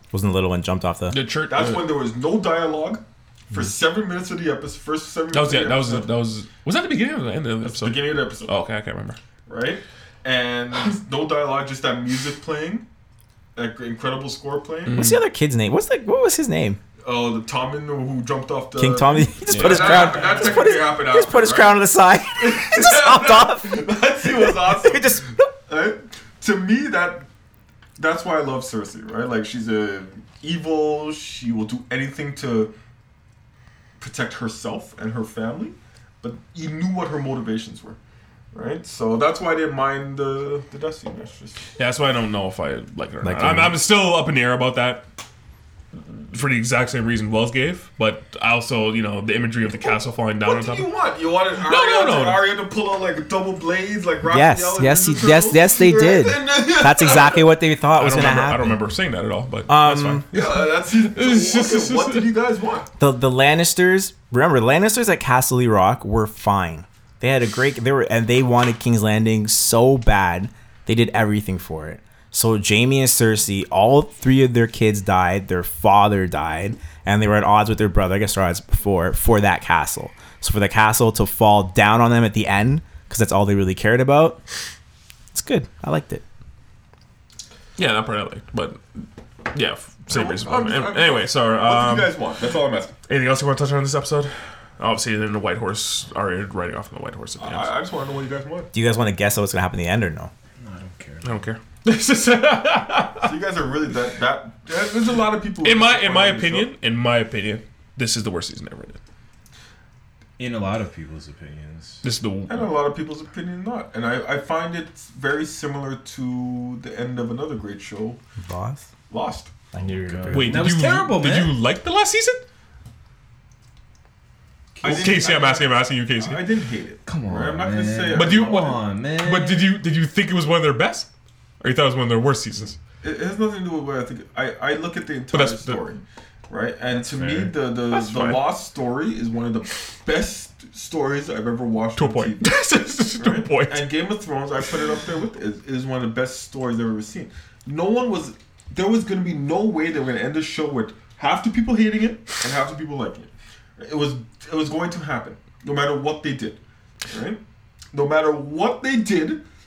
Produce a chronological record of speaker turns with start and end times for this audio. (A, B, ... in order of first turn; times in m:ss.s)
0:00.1-0:01.2 A
0:01.1-0:02.0 B
0:01.5-0:06.1 C
0:05.3-0:09.2 B
0:07.6-0:08.5 C
0:09.5-0:12.9 C
0:13.6-0:15.1 C
0:14.9-0:15.2 B
0:14.9-0:16.8 A
0:17.0-0:21.8 C
0:18.8-0:25.5 A
0:19.5-0:20.2 B
0:22.4-0:27.3 C
0:28.0-0:32.7 C
0:34.0-0:38.0 C
0:38.5-0:41.6 C
0:41.8-0:45.0 B
0:43.2-0:43.8 A
0:46.3-0:50.9 B
0:50.4-0:57.5 C
0:51.6-0:52.4 B
0:54.2-0:58.8 A
0:58.0-1:02.3 B
0:59.7-1:00.3 A
1:00.3-1:02.9 C
1:03.0-1:24.4 A
1:25.3-1:26.2 A
1:27.8-1:32.1 B
1:30.1-1:33.0 C
1:33.1-1:37.7 B
1:37.4-1:38.7 C
1:38.7-1:40.3 A
1:40.6-1:41.4 D
1:41.2-1:43.3 B
1:43.2-1:46.7 C
1:45.6-1:49.0 B
1:50.4-1:52.0 D
1:52.0-1:52.7 B
1:52.5-1:58.2 C
1:58.4-1:58.9 A
1:59.1-1:59.5 C
1:59.7-2:00.7 A
2:00.0-2:01.6 D
2:00.3-2:02.4 B
2:04.8-2:05.1 D
2:04.8-2:08.8 C
2:04.8-2:06.4 B
2:07.0-2:09.7 D
2:08.1-2:11.1 B
2:11.6-2:12.8 B
2:13.0-2:37.4 C
2:15.3-2:15.8 B
2:17.1-2:17.5 D
2:17.9-2:18.5 B
2:22.0-2:23.9 B
2:37.9-2:39.4 C